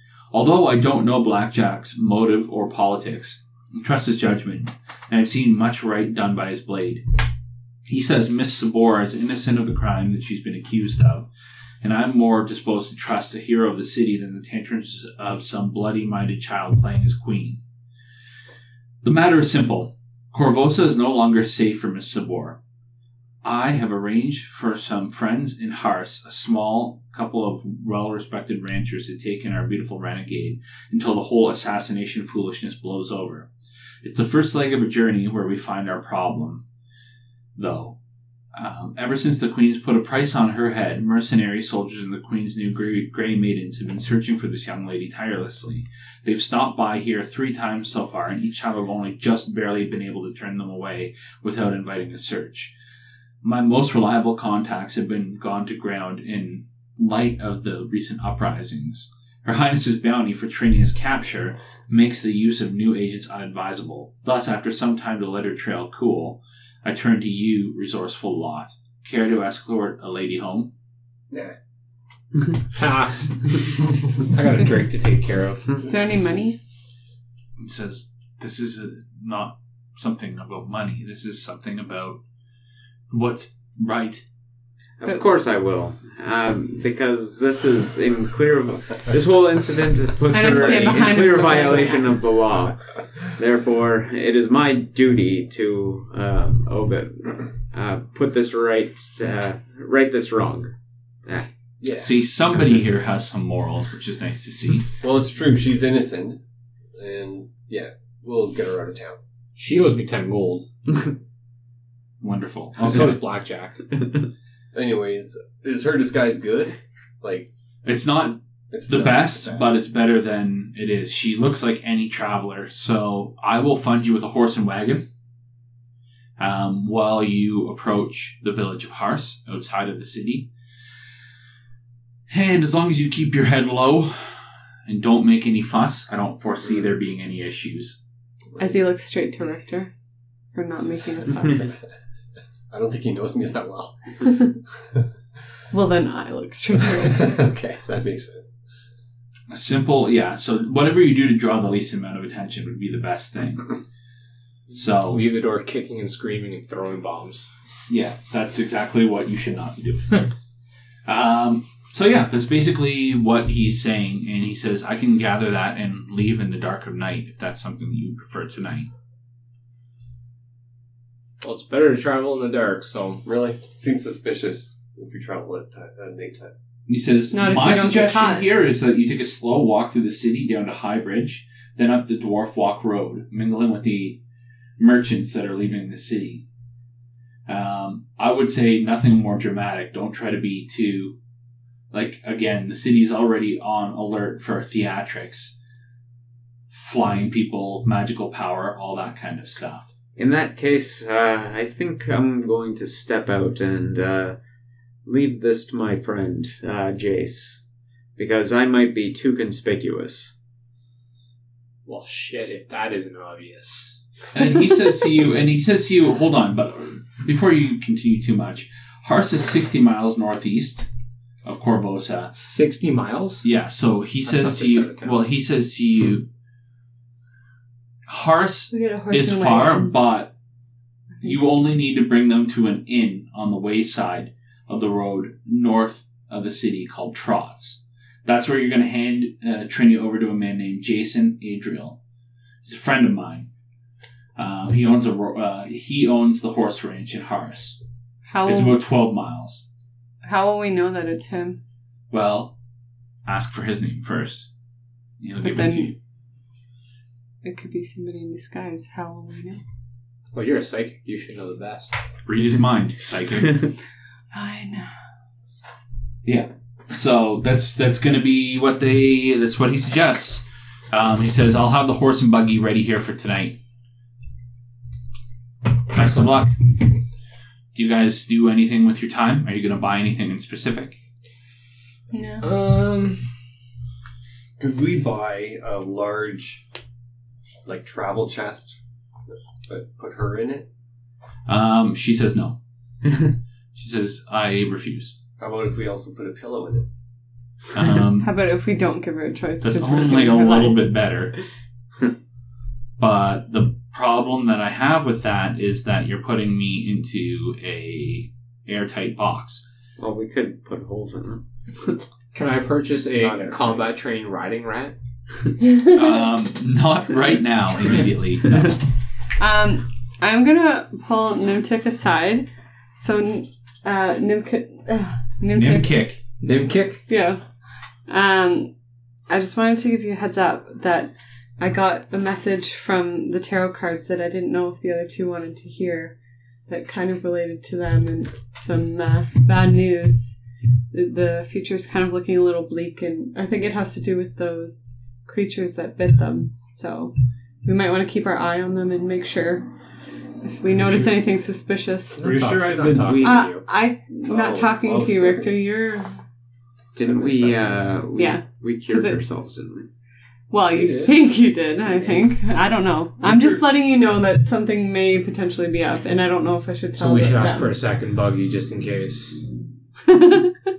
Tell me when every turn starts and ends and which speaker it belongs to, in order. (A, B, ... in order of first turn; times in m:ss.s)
0:00.3-0:07.0 A
0:07.9-0:11.3 A
0:11.8-0:17.6 A
0:19.0-0:22.6 A
0:23.4-0:33.5 A
0:34.0-0:36.6 A
0:37.6-0:38.0 A
0:38.6-0:52.7 A
0:53.4-1:10.7 A
1:12.7-1:15.8 B
1:15.8-1:16.6 C
1:17.6-1:22.2 A
1:23.1-1:24.2 A
1:25.0-1:32.8 D
1:30.3-1:32.1 C
1:33.4-1:41.5 D
1:41.8-1:42.1 E
1:42.0-1:44.9 A
1:45.0-1:46.4 E
1:47.0-1:49.2 E
1:49.6-1:50.7 B
1:52.2-1:53.2 A
1:52.8-1:53.8 B
1:54.7-1:57.5 E
1:57.8-2:05.0 A
1:58.7-1:59.7 E
2:06.4-2:10.5 A
2:12.3-2:18.0 A
2:18.6-2:19.9 C
2:20.5-2:21.7 C
2:22.7-2:24.2 E
2:25.7-2:27.4 C
2:27.0-2:28.5 E
2:29.5-2:33.8 A
2:34.7-2:35.2 A
2:35.0-2:37.5 B
2:37.9-2:40.3 A
2:41.1-2:48.9 A
2:51.4-2:53.2 B
2:53.2-2:56.5 E
2:56.9-3:04.2 A
2:57.3-2:58.5 C
3:04.8-3:06.4 A
3:07.5-3:11.1 A
3:11.9-3:15.6 A
3:16.7-3:19.9 A
3:20.2-3:24.4 D
3:25.0-3:27.6 D
3:28.2-3:30.4 D
3:31.9-3:34.0 B
3:34.3-3:40.9 A
3:41.4-3:42.3 A
3:42.3-3:43.4 B
3:43.4-3:46.2 A
3:44.3-3:45.2 B
3:48.1-3:50.3 A
3:48.7-3:50.0 C
3:51.2-4:02.0 A
4:02.6-4:03.5 A
4:04.4-4:07.8 A
4:08.3-4:08.8 C
4:08.5-4:09.6 A
4:10.2-4:11.6 C
4:12.1-4:12.5 A
4:13.3-4:14.5 A
4:15.2-4:16.0 A
4:15.4-4:15.9 C
4:17.4-4:19.6 C
4:20.3-4:22.0 B
4:22.2-4:23.7 A
4:24.3-4:24.9 C
4:26.2-4:33.6 A
4:35.9-4:36.7 A
4:37.7-4:41.0 A
4:42.1-4:42.5 C
4:42.4-4:43.2 B
4:44.6-4:46.6 E
4:47.7-4:48.8 E
4:49.7-4:50.7 E
4:51.5-4:52.6 A
4:53.8-4:55.2 A
4:55.4-4:56.9 E
4:57.7-4:58.3 A
4:58.2-5:00.9 C
4:59.6-5:01.4 A
5:03.0-5:09.6 A
5:10.0-5:12.0 D
5:12.3-5:15.0 B
5:13.1-5:13.8 E
5:15.7-5:16.0 C
5:15.8-5:18.8 A
5:19.4-5:26.0 C
5:25.5-5:26.2 A
5:26.4-5:27.0 B
5:27.1-5:27.4 C
5:28.1-5:28.7 C
5:29.3-5:36.2 C
5:36.7-5:40.4 C
5:40.9-5:47.1 C
5:47.6-5:49.7 C
5:50.4-5:52.3 C
5:52.2-5:53.5 E
5:52.2-5:53.4 B
5:52.4-5:53.6 D
5:53.2-5:56.1 C
5:54.3-5:55.5 E
5:57.0-5:59.9 D
5:57.0-5:57.9 E
5:58.2-5:59.2 C
6:00.5-6:07.7 C
6:00.7-6:01.2 E
6:03.2-6:03.6 E
6:06.9-6:09.4 B
6:10.1-6:10.6 C